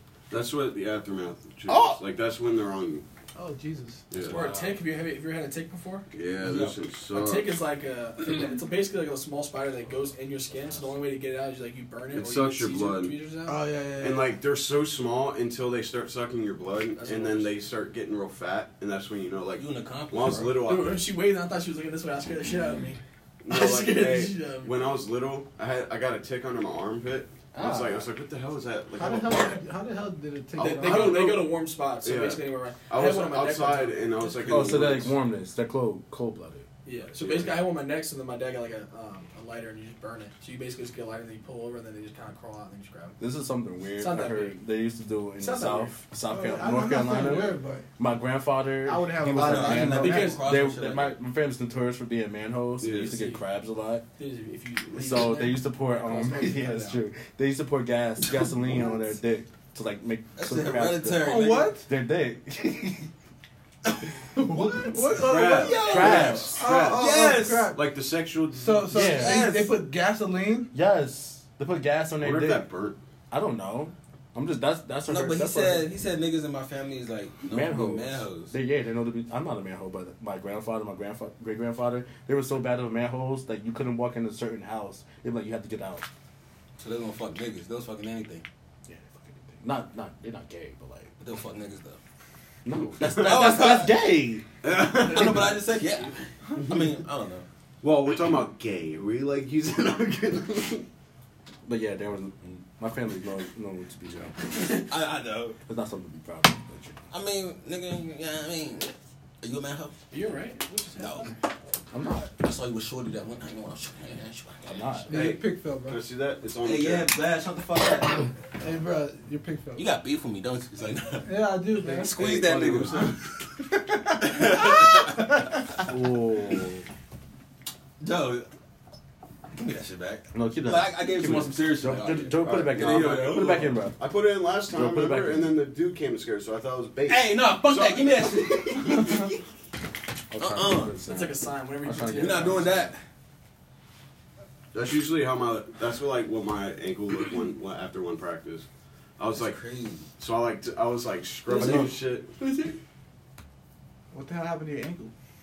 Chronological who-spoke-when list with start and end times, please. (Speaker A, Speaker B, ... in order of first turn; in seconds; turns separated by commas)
Speaker A: 0.3-3.0, Speaker B: 1.7-2.0, Speaker B: 3.4-4.1, Speaker A: 4.1-4.5, Speaker C: 4.2-4.6, Speaker D: 4.2-6.1, Speaker A: 6.1-7.6, Speaker D: 7.1-13.6, Speaker A: 12.1-13.2, Speaker B: 13.5-14.4, Speaker A: 14.0-21.0, Speaker C: 17.0-17.4, Speaker C: 19.6-20.6, Speaker D: 20.6-24.9, Speaker A: 23.4-29.6, Speaker C: 27.5-28.1, Speaker B: 28.9-31.3, Speaker D: 30.6-34.8, Speaker A: 30.6-31.5, Speaker A: 32.0-35.2, Speaker E: 34.4-36.7, Speaker D: 36.9-43.2, Speaker A: 37.1-37.7, Speaker E: 43.2-54.0, Speaker D: 44.0-44.6, Speaker D: 45.4-46.0, Speaker B: 46.3-47.9, Speaker B: 48.8-50.4, Speaker C: 49.3-51.2, Speaker D: 49.7-50.4, Speaker A: 52.8-53.2, Speaker D: 52.9-53.4, Speaker D: 54.2-57.0, Speaker E: 54.9-63.1, Speaker C: 60.4-61.8, Speaker B: 61.2-61.9, Speaker B: 64.3-67.8, Speaker A: 65.2-69.1, Speaker C: 65.3-67.8, Speaker E: 65.8-66.6, Speaker B: 68.5-70.7, Speaker E: 68.9-69.5, Speaker C: 69.0-69.8, Speaker E: 70.7-72.7, Speaker A: 72.2-73.0, Speaker E: 73.3-75.9, Speaker C: 75.1-78.5, Speaker E: 77.5-86.1, Speaker C: 86.8-88.5, Speaker E: 88.9-91.1, Speaker C: 91.2-92.0, Speaker E: 92.7-94.5, Speaker C: 93.2-94.0, Speaker A: 93.2-93.5, Speaker A: 94.6-95.6, Speaker C: 94.7-97.5, Speaker D: 95.1-95.5, Speaker A: 97.8-100.9, Speaker E: 101.7-104.8, Speaker C: 104.5-105.6, Speaker E: 105.7-107.0, Speaker C: 107.1-110.0, Speaker D: 110.1-111.3, Speaker C: 111.0-111.3, Speaker E: 111.9-112.3, Speaker C: 112.4-115.0, Speaker E: 114.7-115.1, Speaker B: 115.1-116.0, Speaker A: 115.1-117.2, Speaker C: 116.6-118.3, Speaker B: 118.6-119.9, Speaker C: 119.8-123.2, Speaker B: 121.3-122.2, Speaker E: 122.2-123.1, Speaker B: 124.1-125.0, Speaker C: 124.2-125.4, Speaker E: 125.8-126.8, Speaker C: 128.0-128.5, Speaker C: 129.6-133.6, Speaker E: 130.3-134.0, Speaker A: 132.4-139.1, Speaker E: 134.7-135.5, Speaker C: 137.1-139.4, Speaker E: 140.3-142.9, Speaker C: 140.4-141.0, Speaker D: 141.1-142.8, Speaker C: 142.2-143.0, Speaker A: 144.7-148.7, Speaker A: 149.2-149.6, Speaker C: 149.3-150.1, Speaker A: 150.2-152.3, Speaker C: 151.5-152.7, Speaker E: 151.6-151.9, Speaker B: 154.1-155.1